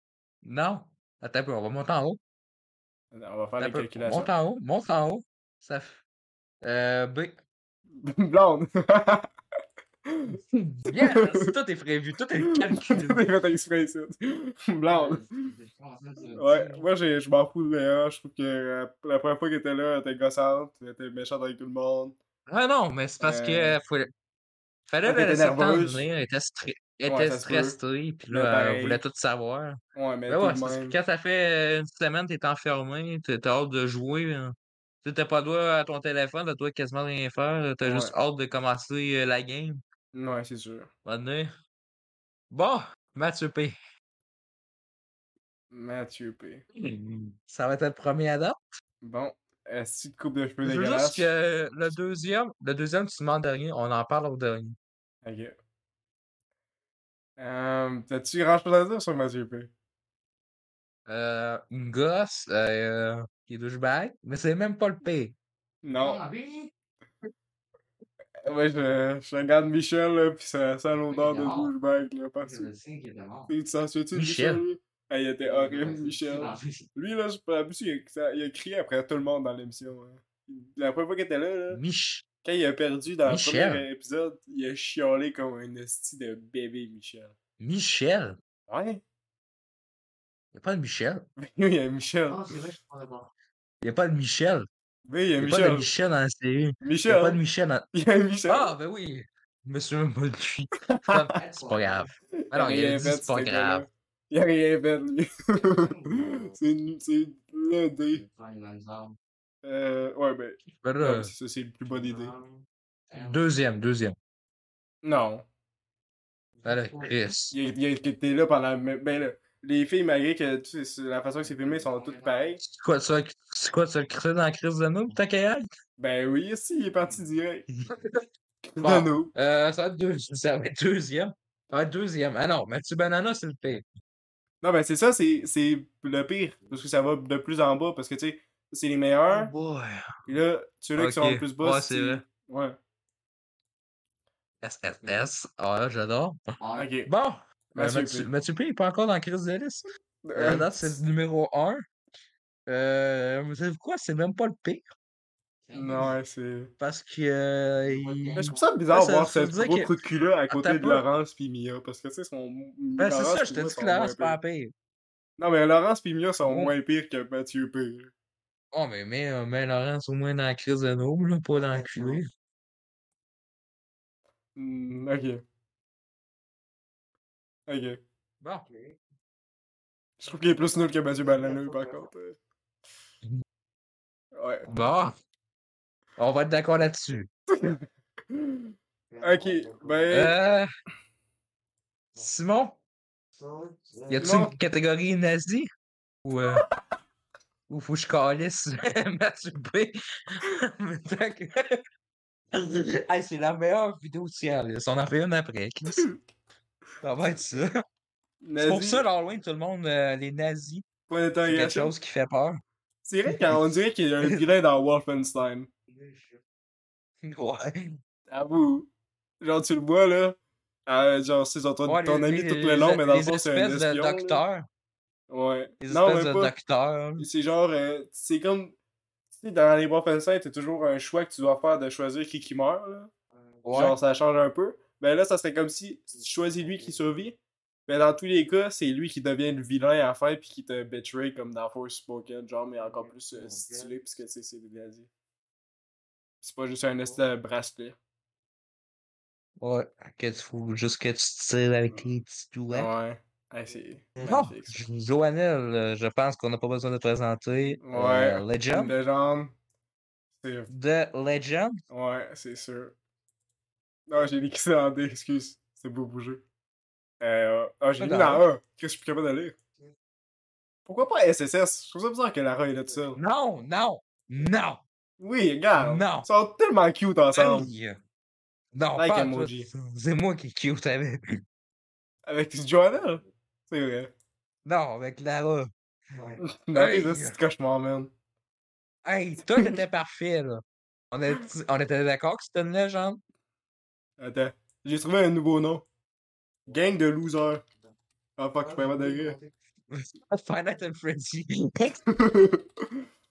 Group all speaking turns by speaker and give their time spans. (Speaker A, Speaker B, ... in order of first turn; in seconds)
Speaker A: 0.4-2.2, 3.6-6.0, 6.6-7.4, 10.5-13.2, 22.5-24.1, 24.9-39.8, 41.0-41.5, 42.5-43.8, 46.7-48.8, 50.6-54.8, 61.1-65.3, 74.1-74.6, 81.7-82.2, 83.2-83.8, 87.6-88.4, 90.5-91.2, 93.8-94.7, 95.4-97.9, 98.5-103.9, 110.8-111.3, 113.1-114.2, 116.6-117.5, 122.6-125.7, 127.8-128.2, 128.8-133.8, 139.3-140.1, 141.0-142.2, 144.6-146.4, 147.1-151.9, 152.7-154.8, 156.8-159.9, 160.5-161.0, 163.0-164.7, 166.4-166.7, 168.7-172.3, 178.4-178.7, 184.7-185.1, 186.2-187.3, 190.1-190.7, 192.2-192.8, 194.1-195.7, 196.2-196.7, 197.7-201.8, 202.5-206.1, 207.0-207.7, 208.6-210.8, 211.5-212.6, 213.3-213.6, 217.2-218.0, 221.9-224.7, 225.8-227.3, 233.6-234.0, 249.6-252.9, 254.2-258.9, 260.7-261.8, 268.0-268.4, 273.1-274.8, 275.8-276.3, 277.3-278.0, 278.7-281.4, 284.6-285.7, 286.2-287.4, 289.0-293.2, 299.9-302.0
Speaker B: 3.1-4.3, 8.0-9.3, 10.1-10.4, 10.9-11.5, 12.4-15.3, 16.4-22.1, 23.2-23.8, 25.0-26.1, 27.1-27.8, 28.3-29.0, 29.9-31.0, 37.8-38.1, 40.1-40.9, 45.7-46.6, 49.0-51.3, 55.2-55.5, 57.4-59.7, 65.8-66.2, 68.4-72.7, 73.5-81.8, 82.4-87.3, 88.7-89.0, 91.4-92.7, 95.1-95.9, 96.8-97.4, 97.9-98.7, 100.9-101.3, 102.4-108.2, 109.6-112.3, 115.0-115.5, 117.5-122.6, 126.0-127.7, 128.7-129.3, 134.6-139.5, 140.2-142.8, 146.8-147.1, 147.7-148.3, 150.2-150.9, 155.7-156.7, 158.4-164.4, 165.4-168.1, 174.6-175.4, 177.7-178.0, 180.2-182.4, 184.3-184.7, 187.5-190.4, 194.2-194.5, 208.4-209.0, 211.1-211.9, 213.0-215.7, 218.3-218.9, 219.4-224.4, 225.3-226.5, 227.2-228.8, 229.3-233.1, 233.7-245.1, 246.4-247.9, 252.7-254.8, 257.8-259.6, 260.4-260.7, 261.9-262.9, 264.1-266.4, 267.2-269.6, 270.9-273.2, 275.2-277.7, 278.9-279.7, 282.2-284.1, 286.4-288.1, 294.2-295.9, 296.7-297.6, 298.4-299.4, 302.1-302.6
Speaker C: 14.9-16.9, 66.0-66.7, 71.1-71.7, 72.4-73.5, 75.4-76.9, 92.3-93.3, 101.3-102.1, 105.6-106.5, 108.1-109.2, 111.9-113.5, 116.6-117.3, 121.4-122.6, 145.0-145.3, 146.6-146.9, 155.6-156.1, 157.8-158.7, 171.6-172.2, 178.7-179.0, 180.2-182.1, 189.1-190.2, 193.3-194.4, 215.9-216.4, 233.3-233.9, 236.1-237.0, 242.8-243.9, 298.6-299.6